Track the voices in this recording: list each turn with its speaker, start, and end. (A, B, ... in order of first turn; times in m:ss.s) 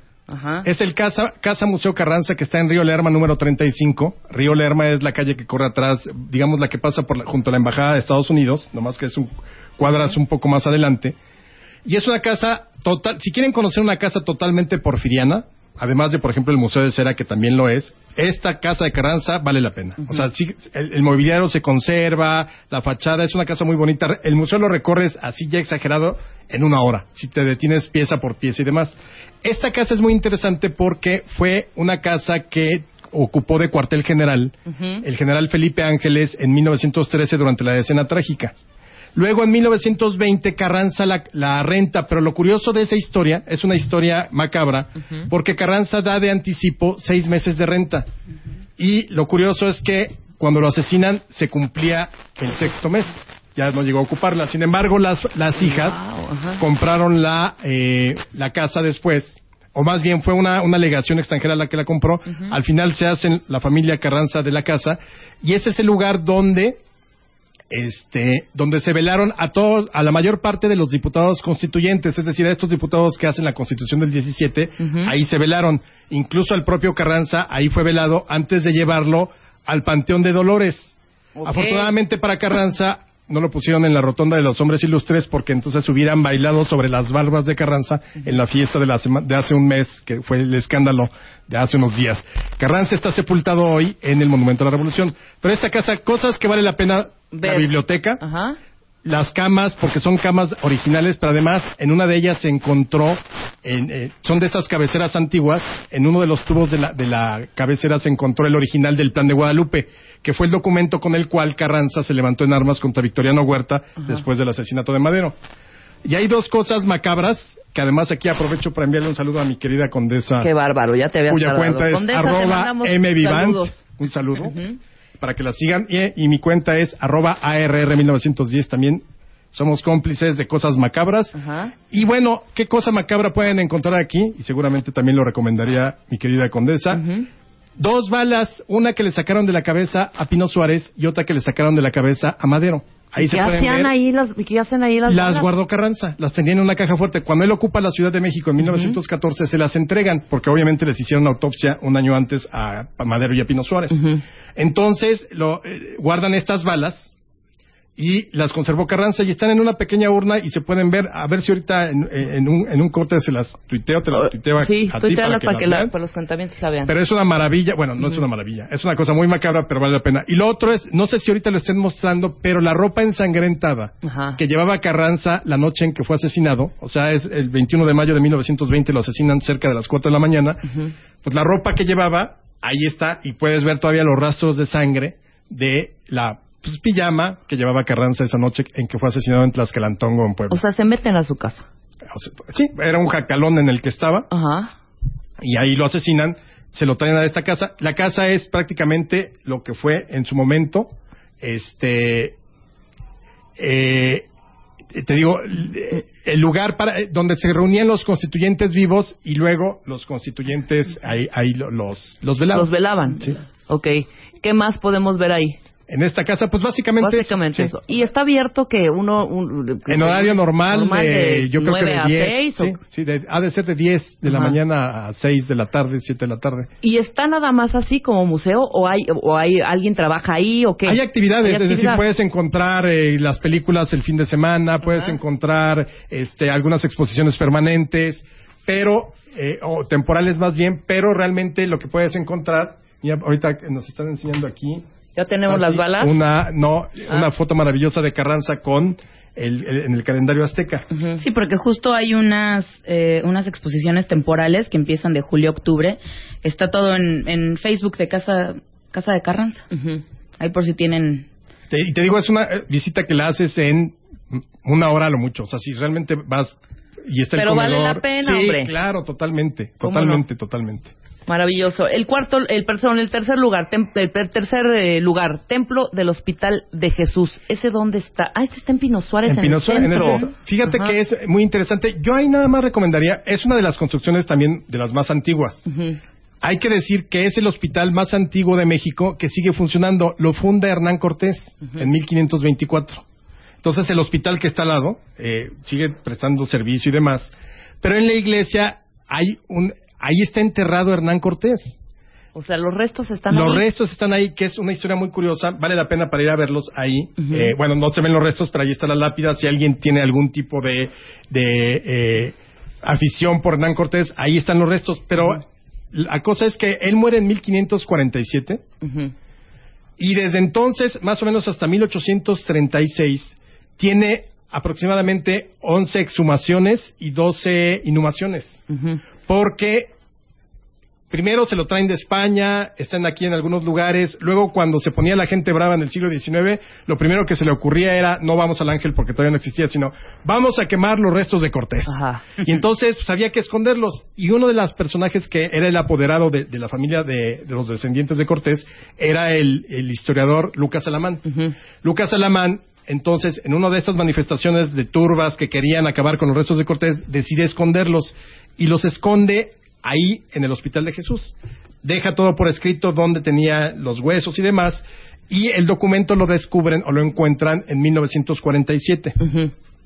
0:00.3-0:00.7 A
0:00.6-0:11.2 B
0:11.8-0:38.5 B
0:34.7-0:35.0 A
0:39.1-0:48.1 B
0:48.8-0:56.0 B
0:55.6-0:56.6 A
0:56.6-1:06.8 B
1:07.7-1:38.2 B
1:14.8-1:15.1 A
1:21.4-1:21.9 A
1:37.3-1:38.6 A
1:39.0-1:55.4 B
1:56.0-2:00.5 B
2:00.4-2:03.8 A
2:01.3-2:04.6 B
2:04.4-2:04.8 A
2:05.2-2:11.4 B
2:11.3-2:11.7 A
2:11.9-2:17.0 B
2:16.9-2:17.3 A
2:17.8-2:23.9 B
2:23.2-2:25.5 A
2:25.1-2:34.0 B
2:28.7-2:28.9 A
2:33.9-2:34.2 A
2:34.5-2:37.1 B
2:38.0-2:45.9 B
2:44.2-2:46.9 A
2:46.8-3:00.7 B
2:54.0-2:54.4 A
3:01.2-3:10.6 B
3:10.5-3:11.6 A
3:12.0-3:14.3 B
3:14.3-3:14.7 A
3:15.4-3:22.4 B
3:23.6-3:24.3 B
3:24.9-3:33.4 B
3:32.5-3:35.6 A
3:35.9-3:37.7 B
3:37.0-3:42.8 A
3:39.9-3:46.7 B
3:44.2-3:44.6 A
3:46.8-3:52.0 A
3:50.8-4:04.8 B
4:05.1-4:06.2 A
4:05.5-4:10.9 B
4:10.9-4:11.2 A
4:11.2-4:19.6 C
4:19.7-4:20.0 A
4:20.4-4:21.3 C
4:21.7-4:30.9 B
4:27.3-4:28.7 A
4:29.8-4:30.2 A
4:31.3-4:40.9 A
4:39.2-4:45.6 B
4:45.7-4:46.0 A
4:46.4-4:53.0 B
4:53.6-5:01.8 B
5:02.3-5:03.6 A
5:03.3-5:18.6 B
5:07.2-5:07.5 A
5:18.8-5:19.1 A
5:20.0-5:28.6 B
5:28.7-5:29.0 A
5:29.3-5:29.9 B
5:31.1-5:51.2 B
5:41.9-5:42.2 A
5:51.2-5:51.5 A
5:51.8-6:09.2 B
6:09.2-6:09.5 A